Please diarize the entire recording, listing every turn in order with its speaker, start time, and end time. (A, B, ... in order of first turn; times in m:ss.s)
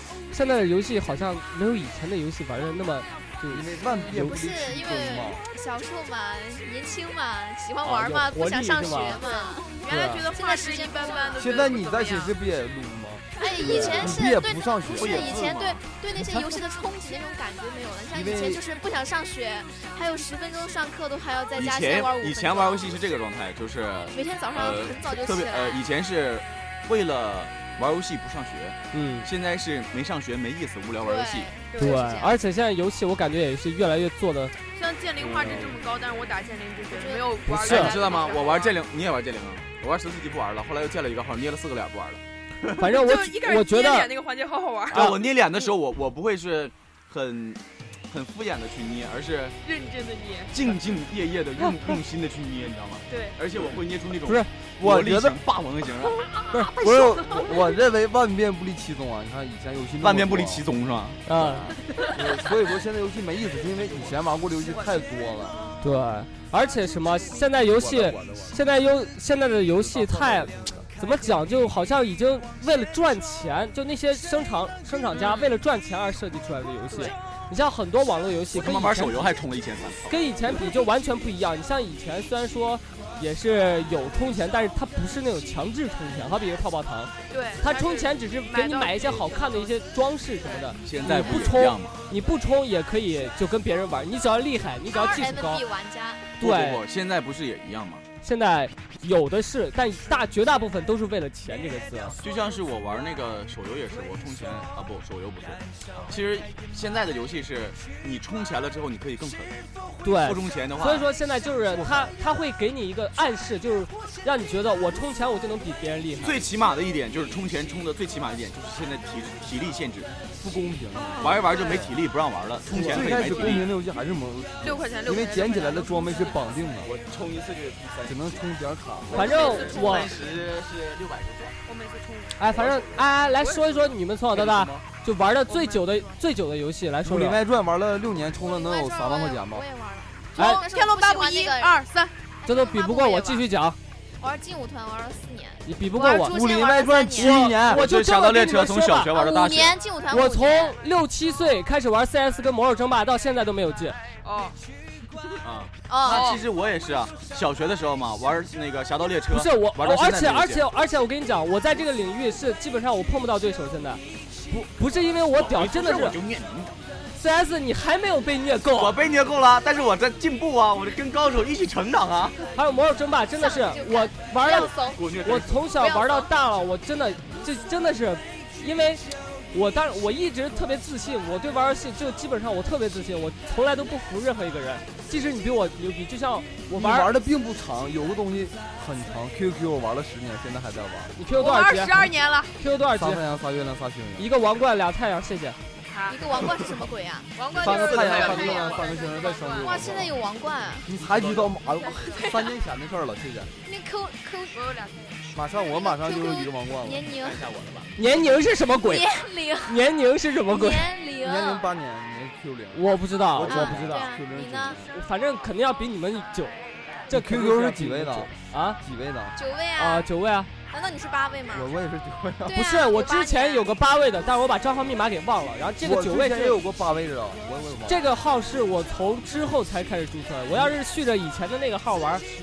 0:00.3-0:03.7 A
0:03.5-0:05.4 B
0:04.1-0:09.7 C
0:07.8-0:09.2 A
0:09.1-0:12.3 D
0:09.9-0:10.3 A
0:10.3-0:11.6 C
0:11.4-0:15.5 B
0:13.4-0:22.9 C
0:13.6-0:14.1 A
0:14.9-0:15.8 E
0:18.1-0:18.6 B
0:21.5-0:31.5 E
0:24.1-0:25.8 C
0:28.9-0:29.3 A
0:31.0-0:32.1 C
0:31.7-0:32.3 D
0:31.8-0:34.5 A
0:34.7-0:38.8 D
0:35.2-0:35.7 A
0:36.9-0:37.3 C
0:37.5-0:37.9 A
0:37.6-0:42.8 E
0:42.8-0:44.1 A
0:42.9-0:45.1 D
0:44.9-0:45.2 A
0:44.9-0:49.6 E
0:49.6-0:50.8 D
0:50.5-0:56.3 E
0:53.1-0:53.4 D
0:54.8-0:55.4 B
0:56.2-0:57.5 D
0:56.8-1:00.6 B
1:00.0-1:01.2 E
1:01.3-1:01.7 A
1:01.3-1:05.6 B
1:01.8-1:02.4 D
1:04.6-1:05.8 D
1:05.8-1:19.3 A
1:07.6-1:08.6 B
1:09.7-1:10.9 B
1:15.1-1:15.6 D
1:18.5-1:20.3 E
1:20.1-1:35.6 A
1:27.3-1:29.8 D
1:30.4-1:30.8 D
1:30.8-1:32.0 E
1:34.9-1:36.3 C
1:36.4-1:36.8 A
1:36.4-1:38.0 E
1:38.2-1:42.2 A
1:42.2-1:49.5 E
1:50.0-1:56.4 A
1:50.2-1:51.1 E
1:51.7-1:52.1 B
1:56.2-2:00.1 E
2:00.4-2:01.9 B
2:00.9-2:01.9 D
2:01.2-2:03.7 E
2:02.7-2:06.9 B
2:02.7-2:03.0 A
2:03.2-2:03.5 D
2:04.6-2:06.6 D
2:06.8-2:08.4 E
2:08.0-2:09.5 B
2:09.1-2:11.6 E
2:09.1-2:10.1 D
2:09.1-2:10.1 A
2:11.6-2:12.4 D
2:12.4-2:17.4 A
2:12.5-2:13.1 E
2:13.4-2:13.9 D
2:14.3-2:14.8 E
2:15.4-2:16.2 D
2:17.0-2:19.6 B
2:18.3-2:21.8 C
2:20.4-2:22.1 D
2:22.4-2:23.4 C
2:22.4-2:23.8 A
2:24.2-2:27.5 C
2:25.6-2:26.3 A
2:26.0-2:27.8 B
2:27.2-2:29.1 A
2:27.7-2:29.8 E
2:29.1-2:30.8 C
2:30.1-2:34.0 A
2:34.2-2:34.6 D
2:35.4-2:40.6 E
2:35.9-2:36.3 C
2:36.1-2:36.4 D
2:39.3-2:46.2 A
2:45.3-2:46.8 E
2:47.2-2:48.9 A
2:48.7-2:52.4 E
2:52.5-3:07.1 A
2:53.4-2:55.0 C
2:54.5-2:55.7 E
2:55.8-2:56.3 C
3:06.7-3:11.2 B
3:11.2-3:12.0 A
3:11.3-3:12.5 D
3:12.6-3:13.2 A
3:12.9-3:14.3 B
3:14.2-3:15.6 A
3:15.8-3:16.4 D
3:16.1-3:17.3 C
3:17.3-3:19.8 D
3:17.5-3:20.2 B
3:17.6-3:18.8 E
3:19.6-3:20.9 C
3:19.8-3:20.1 E
3:20.8-3:23.5 B
3:21.1-3:21.5 E
3:21.6-3:22.5 D
3:23.6-3:24.6 C
3:24.5-3:25.2 D
3:25.3-3:27.1 B
3:25.7-3:27.4 C
3:27.2-3:27.9 E
3:28.0-3:29.1 A
3:28.8-3:29.8 C
3:29.6-3:30.9 A
3:30.5-3:31.6 C
3:31.2-3:34.9 B
3:32.7-3:34.1 A
3:33.4-3:34.8 C
3:34.9-3:38.8 A
3:37.1-3:39.3 B
3:39.3-3:40.1 C
3:39.8-3:40.5 A
3:40.7-3:41.7 C
3:41.5-3:42.7 B
3:42.4-3:43.7 C
3:42.5-3:46.6 A
3:45.8-3:48.0 B
3:47.9-3:52.2 A